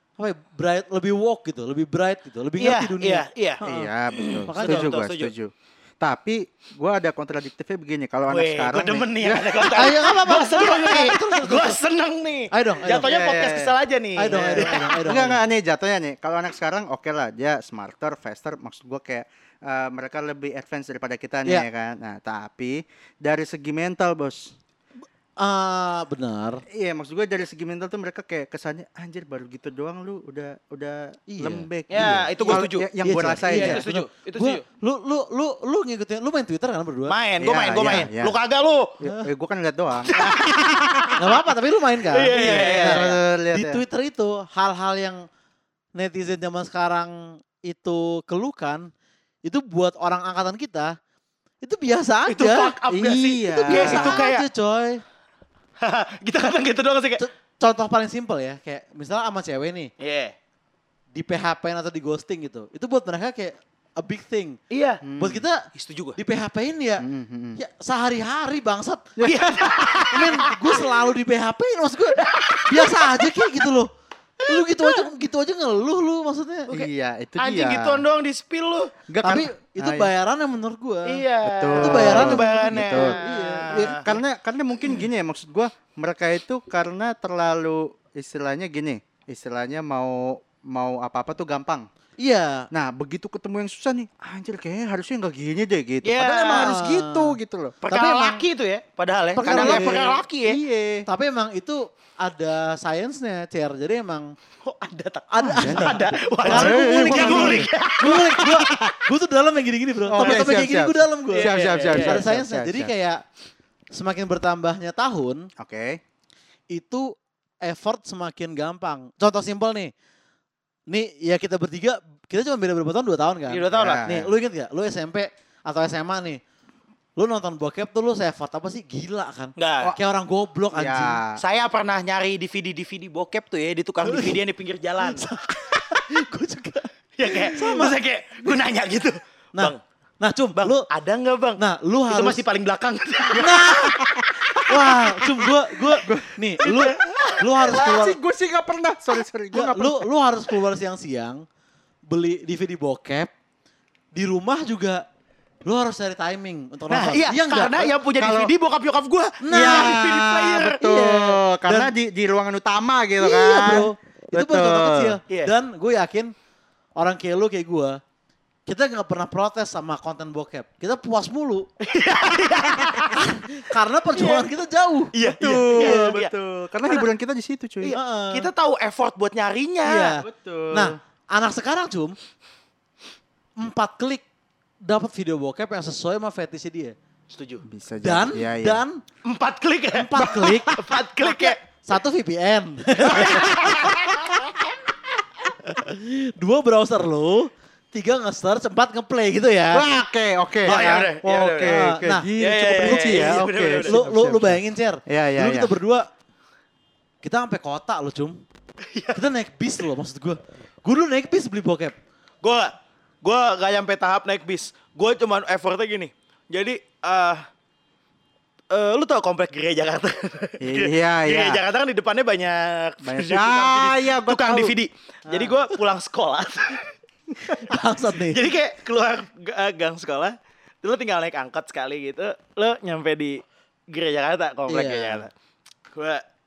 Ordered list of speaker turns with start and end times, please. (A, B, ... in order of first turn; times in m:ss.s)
0:00.2-0:03.9 A
0:02.6-0:05.3 B
0:03.6-0:09.7 C
0:04.5-0:05.0 A
0:08.3-0:14.9 B
0:09.7-0:11.8 A
0:12.5-0:13.1 A
0:13.0-0:13.8 C
0:14.2-0:15.4 A
0:14.3-0:24.6 C
0:25.4-0:26.6 A
0:26.7-0:33.8 C
0:31.3-0:37.2 A
0:31.9-0:32.9 B
0:33.5-0:34.6 B
0:37.1-0:39.0 B
0:37.4-0:38.4 C
0:39.0-0:40.4 C
0:40.1-0:41.4 B
0:41.2-0:45.3 A
0:42.1-0:43.2 B
0:42.3-0:43.8 C
0:46.0-0:48.9 A
0:49.4-0:51.0 A
0:51.6-0:52.8 A
0:52.3-0:54.5 B
0:52.9-0:54.2 C
0:53.6-0:55.0 A
0:55.8-0:57.2 B
0:57.2-0:59.9 A
1:00.0-1:00.3 B
1:01.1-1:04.6 A
1:04.7-1:05.0 B
1:05.0-1:05.4 C
1:05.2-1:07.1 A
1:05.7-1:06.2 B
1:07.0-1:07.6 C
1:07.6-1:09.1 A
1:09.2-1:09.6 C
1:09.2-1:10.9 B
1:10.1-1:13.9 A
1:12.2-1:13.7 B
1:14.4-1:15.0 B
1:14.5-1:16.7 A
1:16.7-1:18.0 C
1:16.7-1:18.9 B
1:19.1-1:20.1 C
1:19.2-1:21.2 A
1:21.1-1:24.2 B
1:21.4-1:23.2 C
1:21.8-1:24.0 A
1:23.7-1:31.9 C
1:32.2-1:32.7 A
1:32.7-1:37.8 C
1:36.0-1:36.8 B
1:36.5-1:37.4 A
1:37.8-1:40.6 B
1:37.9-1:38.4 A
1:39.4-1:40.1 A
1:39.4-1:41.1 C
1:41.1-1:44.3 A
1:44.6-1:48.9 B
1:45.3-1:53.2 A
1:45.4-1:47.7 C
1:50.1-1:52.9 C
1:50.2-1:50.5 B
1:51.3-1:52.3 B
1:53.9-1:55.5 A
1:55.6-1:56.0 C
1:56.7-1:59.9 A
2:00.9-2:06.4 A
2:03.5-2:04.1 B
2:03.7-2:04.3 C
2:07.2-2:11.2 A
2:09.6-2:10.0 B
2:10.7-2:11.4 C
2:11.4-2:15.3 B
2:14.0-2:14.4 A
2:15.0-2:18.0 A
2:17.2-2:19.8 B
2:19.6-2:20.9 A
2:20.6-2:23.6 B
2:21.6-2:22.4 A
2:23.3-2:24.0 A
2:23.4-2:24.8 C
2:24.6-2:28.2 A
2:26.0-2:30.1 C
2:26.6-2:27.4 B
2:29.5-2:31.4 A
2:32.1-2:33.3 A
2:34.2-2:35.0 A
2:35.6-2:37.9 A
2:36.9-2:40.8 B
2:38.2-2:38.5 C
2:39.4-2:40.0 A
2:39.5-2:45.2 C
2:40.8-2:41.9 A
2:43.2-2:46.3 A
2:47.0-2:48.0 A
2:48.7-2:51.7 A
2:51.8-2:53.3 B
2:53.1-2:55.1 A
2:54.2-2:54.5 B
2:55.1-2:56.3 B
2:55.4-2:58.0 C
2:55.8-2:56.1 A
2:57.8-3:00.1 B
2:57.9-2:58.5 A
2:59.8-3:02.2 A
3:00.2-3:01.0 C
3:03.6-3:04.2 A
3:04.8-3:07.0 A
3:07.3-3:07.6 B
3:07.6-3:08.8 C
3:08.0-3:09.0 A
3:09.2-3:11.6 B
3:09.9-3:14.1 A
3:10.2-3:10.6 C
3:13.0-3:14.5 B
3:15.6-3:19.9 A
3:19.7-3:25.7 C
3:20.6-3:21.1 A
3:20.7-3:21.8 B
3:21.6-3:22.3 A
3:22.4-3:24.0 B
3:22.8-3:23.3 A
3:23.8-3:26.1 A
3:27.2-3:28.4 A
3:28.9-3:29.2 B
3:29.1-3:32.0 A
3:32.4-3:37.4 B
3:38.7-3:46.9 B
3:40.6-3:41.6 C
3:43.0-3:44.8 C
3:47.5-3:48.4 A
3:48.2-3:55.3 B
3:54.7-3:55.3 A
3:55.9-3:56.2 B